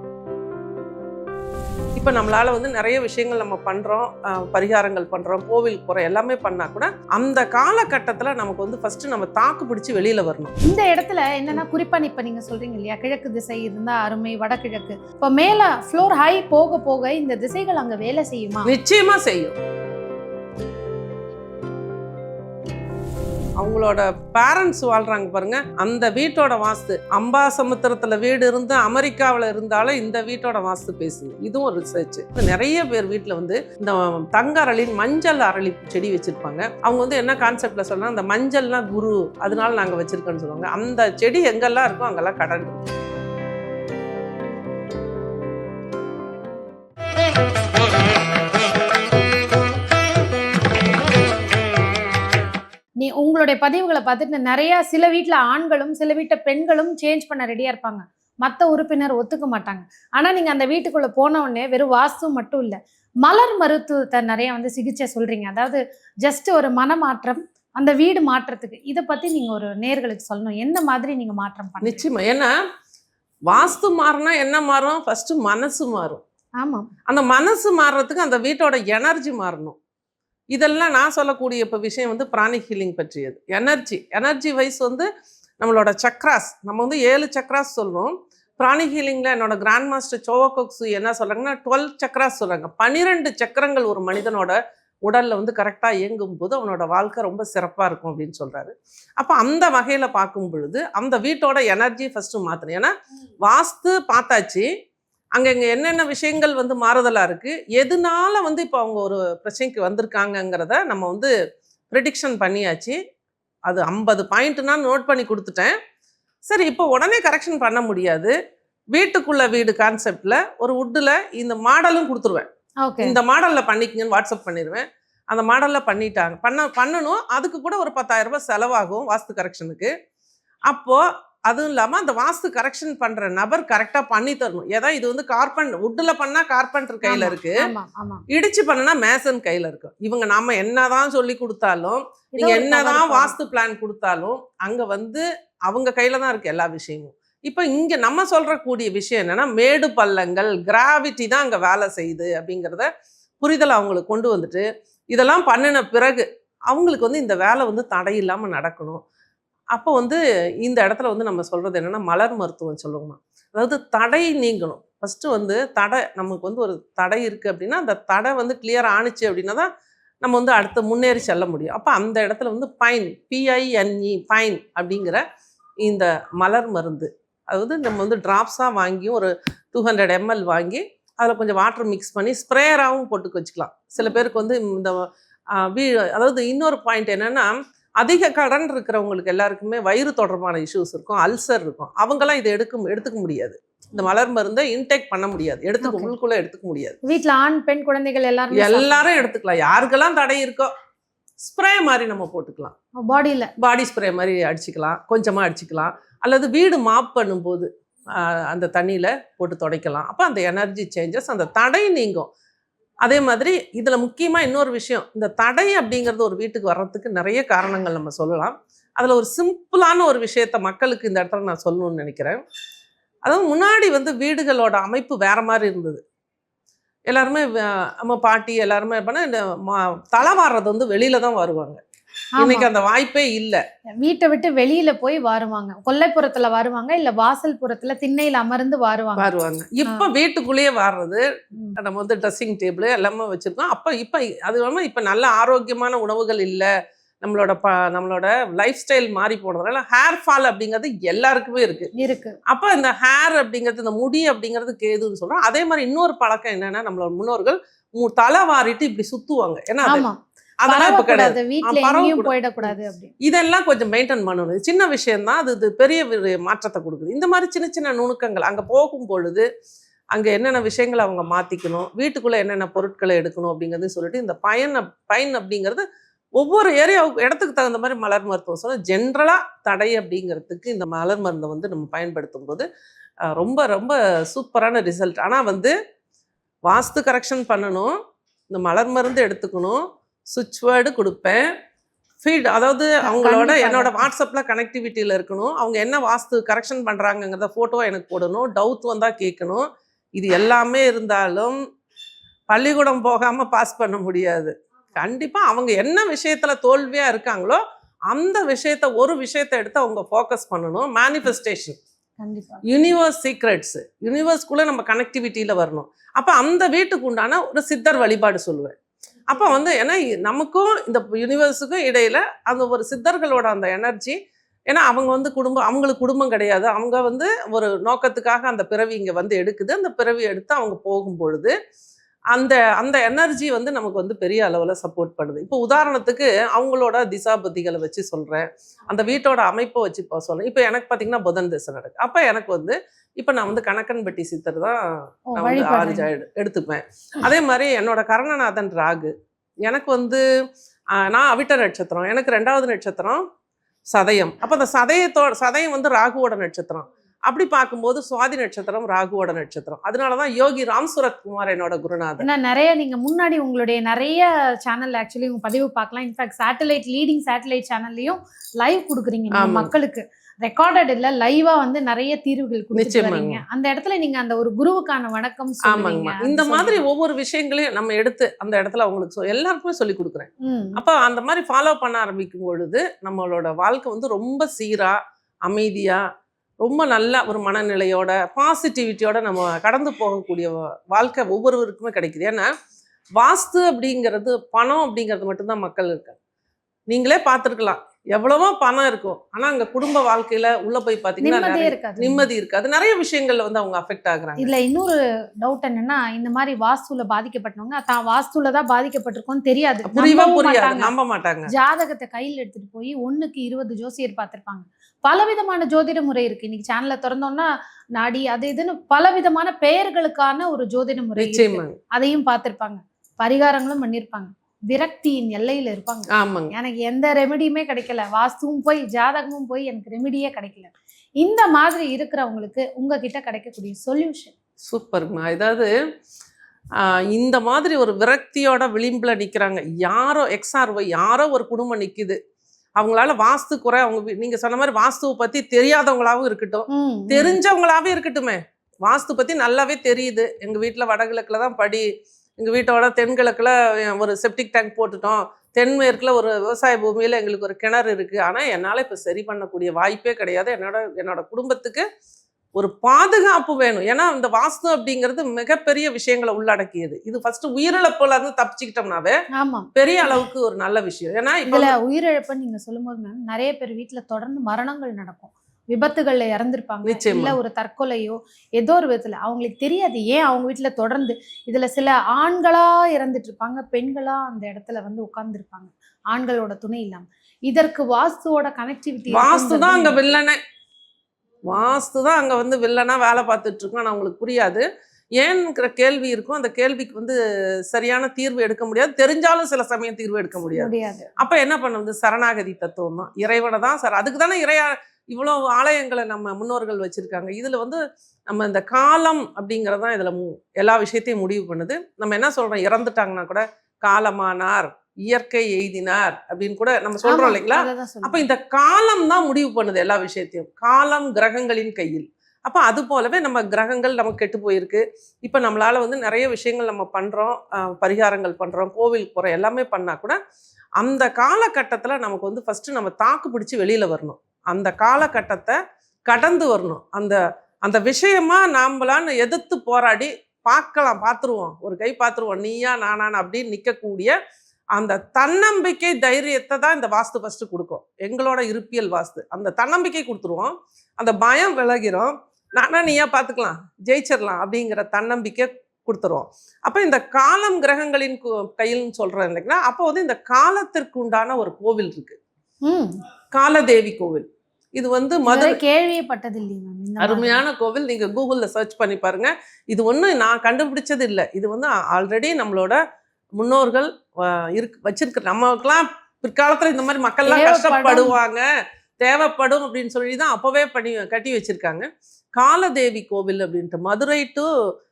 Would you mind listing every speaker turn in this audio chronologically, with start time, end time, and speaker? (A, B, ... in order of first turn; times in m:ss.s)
0:02.0-0:10.6 A
0:10.6-0:18.7 B
0:18.7-0:19.6 A
0:23.6-0:42.9 A
0:53.0-1:12.0 B
1:11.8-1:12.5 A
1:13.5-1:16.2 A
1:16.6-1:16.9 B
1:17.1-1:19.8 A
1:20.5-1:25.1 A
1:25.6-1:42.9 A
1:43.4-1:44.7 A
1:45.4-1:51.3 A
1:51.9-1:53.0 A
1:53.7-1:55.8 A
1:56.5-1:58.4 A
1:58.9-2:02.5 A
2:02.8-2:03.2 B
2:03.0-2:09.9 A
2:10.7-2:17.6 A
2:17.0-2:18.2 B
2:18.3-2:32.9 A
2:22.4-2:23.4 B
2:33.4-2:39.0 A
2:39.7-2:49.7 A
2:50.2-2:55.2 A
2:55.8-3:17.0 A
3:15.8-3:16.1 B
3:17.0-3:19.2 B
3:18.5-3:20.7 A
3:21.4-3:22.7 A
3:23.0-3:23.5 B
3:23.6-3:32.3 A
3:33.0-3:42.4 A
3:43.3-3:46.0 A
3:47.1-3:51.8 A
3:52.4-3:52.7 B
3:52.4-3:53.6 A
3:54.0-3:59.3 B
3:59.2-4:01.2 A
4:01.8-4:06.7 A
4:07.2-4:11.9 A
4:12.0-4:12.4 B
4:12.5-4:20.1 A
4:19.8-4:23.1 B
4:20.6-4:29.5 A
4:30.1-4:35.8 A
4:36.4-4:42.7 A
4:43.3-4:45.7 A
4:46.7-4:47.9 A
4:48.5-4:51.5 A
4:52.2-5:01.6 A
4:53.0-4:54.1 B
5:02.5-5:11.8 A
5:12.2-5:12.7 B
5:12.7-5:18.7 A
5:19.3-5:24.2 A
5:24.7-5:31.5 A
5:32.3-5:44.8 A
5:45.3-5:46.1 B
5:45.4-5:49.1 A
5:49.6-5:50.2 A
5:51.0-5:53.2 A
5:53.9-6:02.3 A
6:02.2-6:16.8 B
6:09.3-6:09.7 A
6:12.8-6:13.4 A
6:15.6-6:26.0 A
6:20.4-6:20.8 B
6:26.6-6:32.5 A
6:33.2-6:36.2 A
6:36.9-6:44.5 A
6:41.2-6:42.3 B
6:44.4-6:50.9 B
6:49.9-6:51.5 A
6:51.5-7:14.3 B
7:01.2-7:01.8 A
7:06.1-7:06.5 A
7:14.7-7:15.7 A
7:16.8-7:22.2 A
7:22.8-7:31.9 A
7:26.7-7:27.4 B
7:32.4-7:41.8 A
7:42.6-7:49.2 A
7:49.4-7:50.2 B
7:49.8-7:51.8 A
7:51.5-8:10.1 B
7:56.8-7:57.4 A
8:09.1-8:10.4 A
8:11.5-8:14.6 A
8:15.2-8:17.2 A
8:17.7-8:50.2 A
8:20.5-8:21.1 B
8:37.0-8:38.2 B
8:50.8-9:04.2 A
9:04.8-9:22.2 A
9:22.6-9:23.0 B
9:23.3-9:25.6 A
9:25.3-9:27.4 B
9:27.0-9:32.8 A
9:33.4-9:38.4 A
9:37.3-9:38.2 B
9:39.0-9:44.5 A